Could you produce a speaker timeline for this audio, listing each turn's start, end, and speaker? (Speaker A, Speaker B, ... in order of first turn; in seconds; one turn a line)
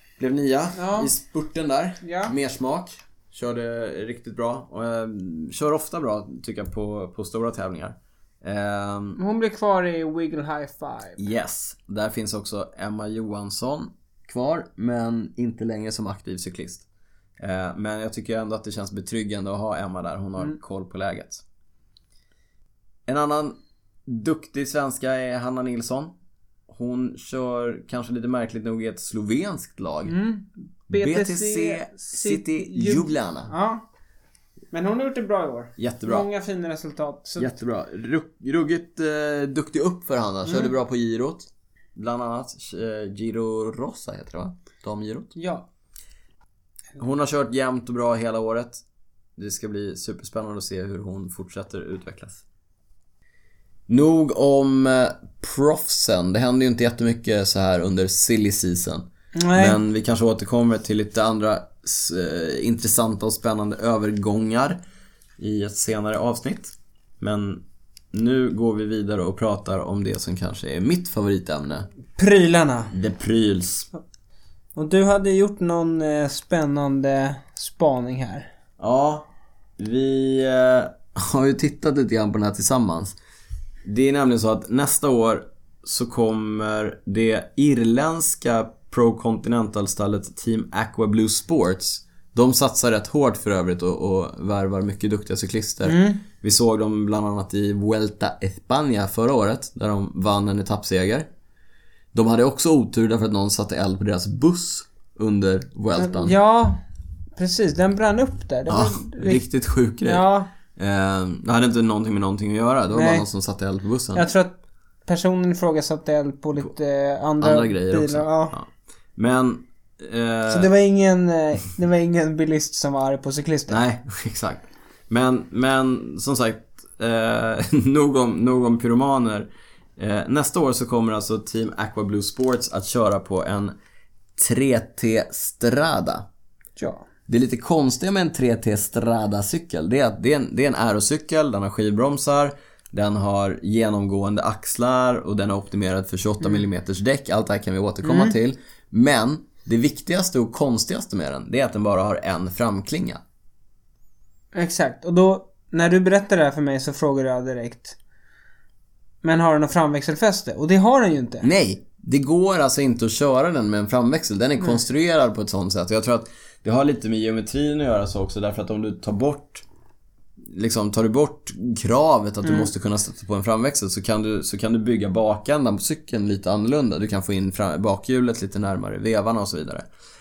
Speaker A: 0.2-9.2
Speaker B: 0.7-1.1
Speaker B: 2.0-2.3
Speaker B: 9.2-11.2
Speaker A: 11.2-16.9
Speaker A: 17.4-21.4
Speaker A: 23.1-26.1
Speaker A: 26.7-30.1
Speaker B: 30.0-33.8
Speaker A: 30.9-33.5
Speaker B: 34.7-37.5
Speaker A: 35.8-36.3
Speaker A: 37.4-45.3
Speaker B: 45.3-45.7
Speaker A: 47.0-48.8
Speaker A: 49.4-52.4
Speaker A: 53.9-64.8
Speaker B: 59.3-59.8
Speaker A: 65.4-71.9
Speaker B: 72.2-72.9
Speaker A: 72.9-73.9
Speaker B: 74.7-78.5
Speaker A: 78.8-83.2
Speaker A: 83.8-101.3
Speaker B: 95.8-96.2
Speaker A: 102.1-106.3
Speaker B: 106.0-106.8
Speaker B: 107.3-109.4
Speaker A: 108.7-114.2
Speaker B: 110.0-110.5
Speaker B: 112.9-113.2
Speaker B: 114.1-114.5
Speaker B: 115.0-118.5
Speaker A: 117.4-120.7
Speaker B: 120.5-123.8
Speaker A: 123.7-133.7
Speaker A: 134.3-136.3
Speaker B: 136.8-137.0
Speaker A: 137.3-153.2
Speaker B: 148.0-148.3
Speaker B: 154.5-158.0
Speaker B: 159.2-161.4
Speaker A: 161.4-169.6
Speaker A: 170.5-179.8
Speaker B: 172.4-172.7